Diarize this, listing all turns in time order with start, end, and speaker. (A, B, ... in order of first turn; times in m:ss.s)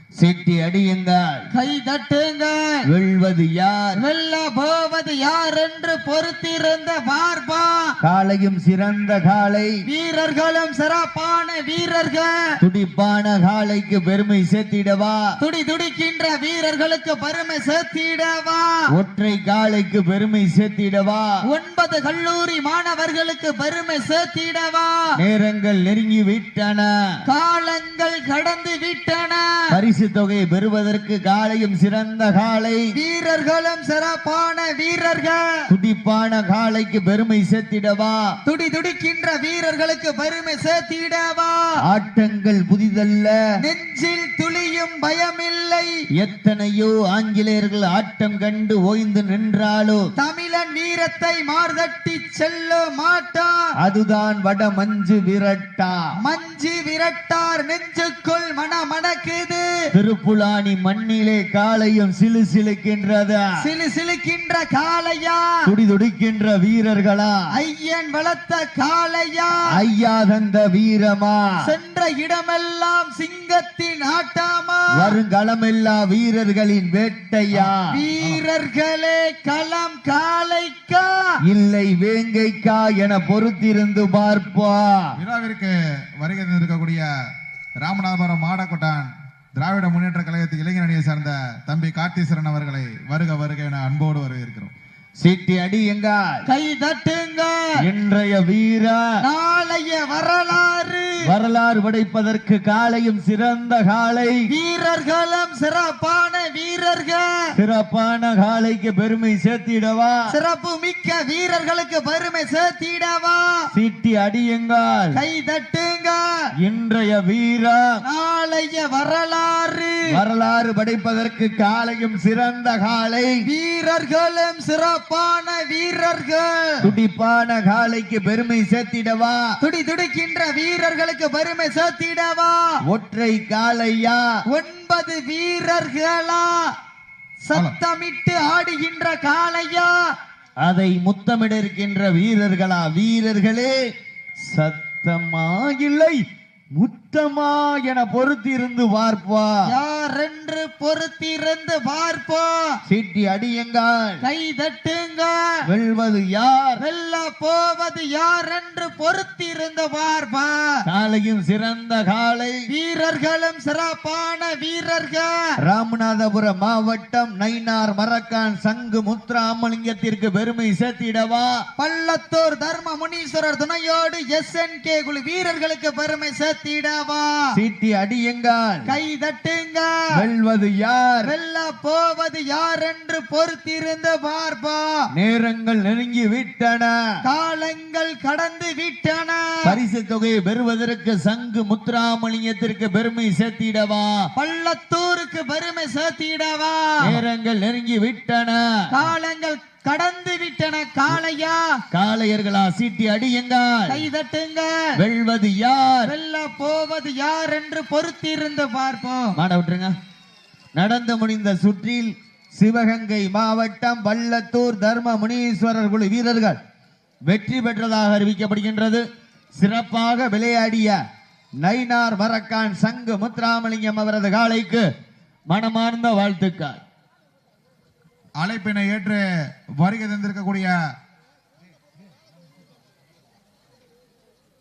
0:00.2-0:01.5 A
0:01.5-0:02.8 B
0:02.9-0:04.0 A
0:04.0-0:07.9 B
0:08.0-0:09.8 A
0:09.8-0:12.5 B
0:12.6-0:15.4 A
0:15.4-0:18.8 B
0:18.9-0:21.4 A
0:21.4-0:25.1 B
0:25.2-0:26.9 A
0:27.3-0:29.6 B
0:29.7-0:32.8 A
0:32.9-0:35.5 B
0:35.7-0:38.3 A
0:38.4-0:41.7 B
0:41.8-0:43.4 A
0:43.6-0:45.9 B
0:46.2-0:50.1 A
0:50.2-0:53.7 B
0:53.8-0:56.1 A
0:56.2-0:59.7 B
0:59.9-1:03.5 A
1:03.6-1:05.6 B
1:05.6-1:07.5 A
1:07.5-1:09.7 B
1:09.7-1:11.6 A
1:11.6-1:15.1 B
1:14.9-1:17.9 A
1:17.5-1:18.4 C
1:17.9-1:21.3 B
1:21.4-1:25.2 A
1:25.2-1:27.1 C
1:27.8-1:34.7 C
1:35.2-1:36.4 A
1:36.4-1:37.8 B
1:37.8-1:39.2 A
1:39.2-1:41.2 B
1:41.2-1:44.4 A
1:44.5-1:47.4 B
1:47.6-1:50.3 A
1:50.3-1:53.7 B
1:53.7-1:55.2 A
1:55.1-1:56.2 B
1:56.6-1:58.0 A
1:58.0-2:00.0 B
2:00.1-2:03.4 A
2:03.4-2:06.8 B
2:06.8-2:09.4 A
2:09.6-2:12.8 B
2:12.9-2:14.2 A
2:14.5-2:16.7 B
2:17.4-2:20.0 B
2:20.6-2:23.8 A
2:24.4-2:26.2 A
2:26.7-2:29.7 A
2:29.7-2:32.8 B
2:32.8-2:34.2 A
2:34.2-2:35.6 B
2:35.7-2:36.8 A
2:36.8-2:40.8 B
2:40.8-2:42.6 A
2:42.7-2:45.3 B
2:45.6-2:51.6 A
2:51.8-2:57.5 B
2:57.5-2:58.9 A
2:58.8-3:00.0 B
3:00.1-3:01.3 A
3:01.2-3:05.0 B
3:05.1-3:07.0 A
3:07.2-3:09.7 B
3:09.6-3:14.3 A
3:14.3-3:17.2 B
3:17.0-3:18.8 A
3:18.9-3:21.8 B
3:21.9-3:24.0 A
3:23.9-3:25.0 B
3:25.0-3:26.1 A
3:26.0-3:29.4 B
3:29.4-3:29.9 A
3:30.7-3:36.6 A
3:37.3-3:39.0 A
3:39.6-3:41.0 A
3:41.6-3:44.9 A
3:45.5-3:46.8 A
3:48.4-3:49.2 C
3:49.8-3:50.8 C